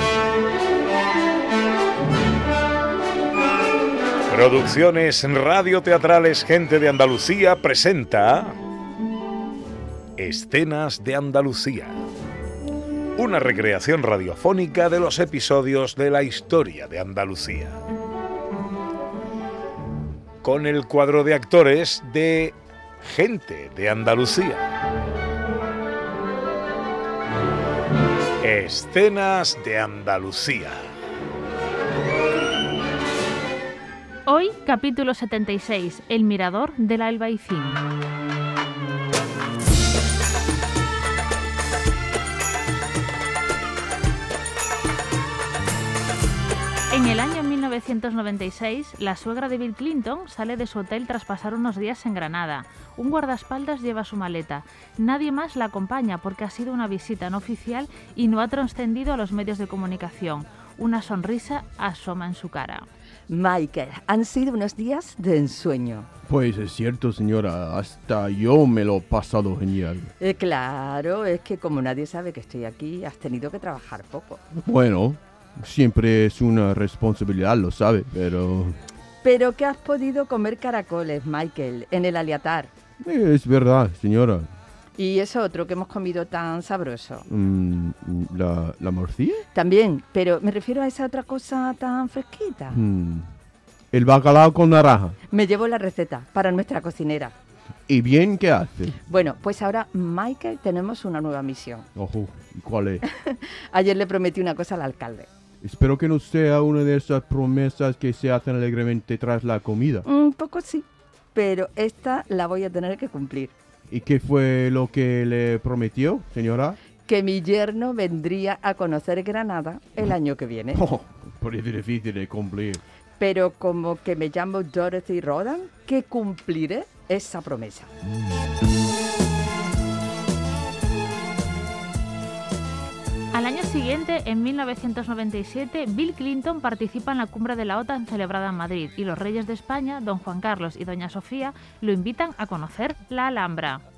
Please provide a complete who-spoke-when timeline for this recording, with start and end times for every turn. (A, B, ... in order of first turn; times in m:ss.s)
0:04.3-0:08.5 A
0:10.2-0:12.0 A
0:13.2-0:17.8 A
0:20.4-0:24.6 A
0:28.4-0:30.8 A
0:34.2-0:37.8 B
0:46.9-1:02.8 B
1:03.3-1:06.1 C
1:06.3-1:10.1 D
1:10.2-1:14.4 C
1:14.5-1:18.8 D
1:19.2-1:22.7 C
1:23.0-1:24.5 D
1:25.0-1:27.2 C
1:27.3-1:29.4 D
1:29.5-1:32.8 C
1:32.7-1:33.3 D
1:33.9-1:35.2 D
1:35.3-1:37.3 C
1:37.9-1:39.0 D
1:39.1-1:41.9 C
1:41.9-1:43.0 D
1:43.1-1:45.3 C
1:45.6-1:50.0 D
1:50.0-1:53.5 C
1:53.9-1:56.8 D
1:57.1-2:00.8 C
2:00.7-2:02.8 D
2:03.2-2:07.9 C
2:13.3-2:23.8 B